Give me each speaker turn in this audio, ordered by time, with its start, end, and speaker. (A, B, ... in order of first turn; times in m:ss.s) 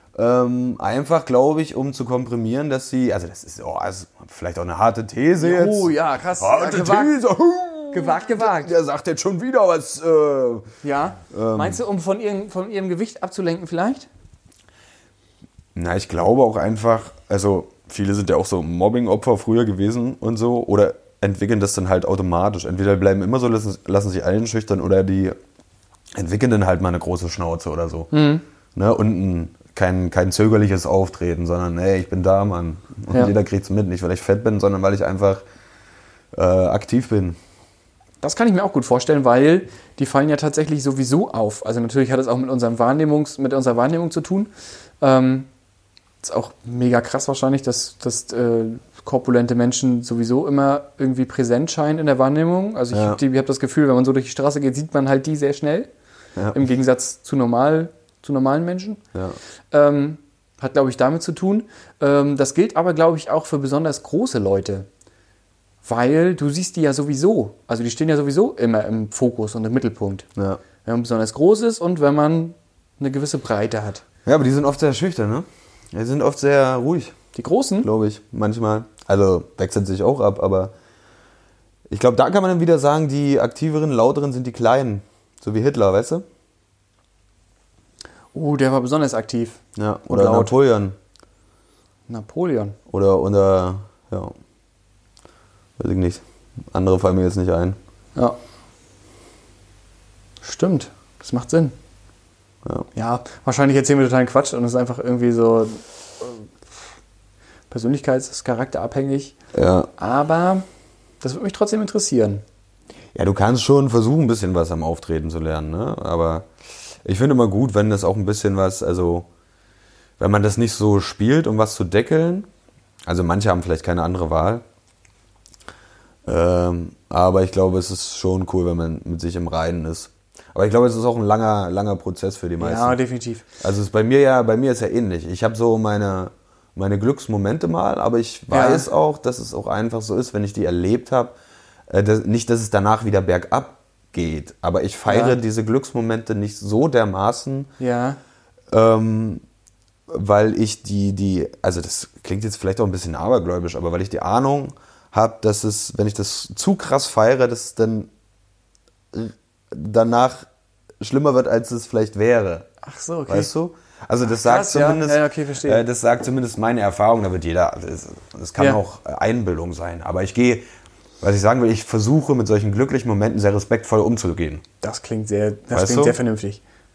0:00.2-0:10.7 A
0:05.4-0:07.1 B
0:07.9-0:08.7 B
0:10.8-0:14.1 B
0:11.3-0:11.8 A
0:15.8-0:25.4 A
0:26.1-0:28.1 A
0:28.1-0:28.4 B
0:28.7-0:35.4 A
0:36.3-0:37.4 A
0:38.2-0:45.5 B
0:46.2-0:55.9 B
0:52.9-0:53.2 A
0:56.4-0:56.6 A
0:56.5-0:59.0 B
0:59.7-1:04.9 B
1:05.8-1:10.3 B
1:10.4-1:10.6 A
1:10.8-1:14.0 B
1:14.2-1:17.2 A
1:17.3-1:17.9 B
1:17.8-1:20.7 A
1:21.9-1:26.2 A
1:28.3-1:30.5 B
1:29.8-1:31.0 A
1:32.1-1:32.8 B
1:32.9-1:34.3 A
1:35.8-1:37.8 A
1:40.4-1:41.7 B
1:42.9-1:46.5 B
1:47.7-1:49.3 B
1:49.5-1:49.9 A
1:50.0-1:50.6 B
1:51.2-1:52.4 B
1:53.1-1:56.5 A
1:57.0-1:59.3 A
2:00.2-2:02.5 A
2:03.0-2:04.6 A
2:06.2-2:13.0 A
2:12.6-2:13.4 B
2:13.6-2:21.3 A
2:18.5-2:18.9 B
2:21.9-2:27.7 A
2:25.1-2:25.4 B
2:27.8-2:28.2 B
2:28.7-2:29.4 A
2:30.1-2:38.1 A
2:39.1-2:40.5 A
2:41.0-2:42.7 A
2:42.8-2:43.5 B
2:43.3-2:50.6 A
2:44.4-2:45.8 B
2:51.2-2:54.6 A
2:54.8-2:56.6 B
2:55.7-2:56.2 A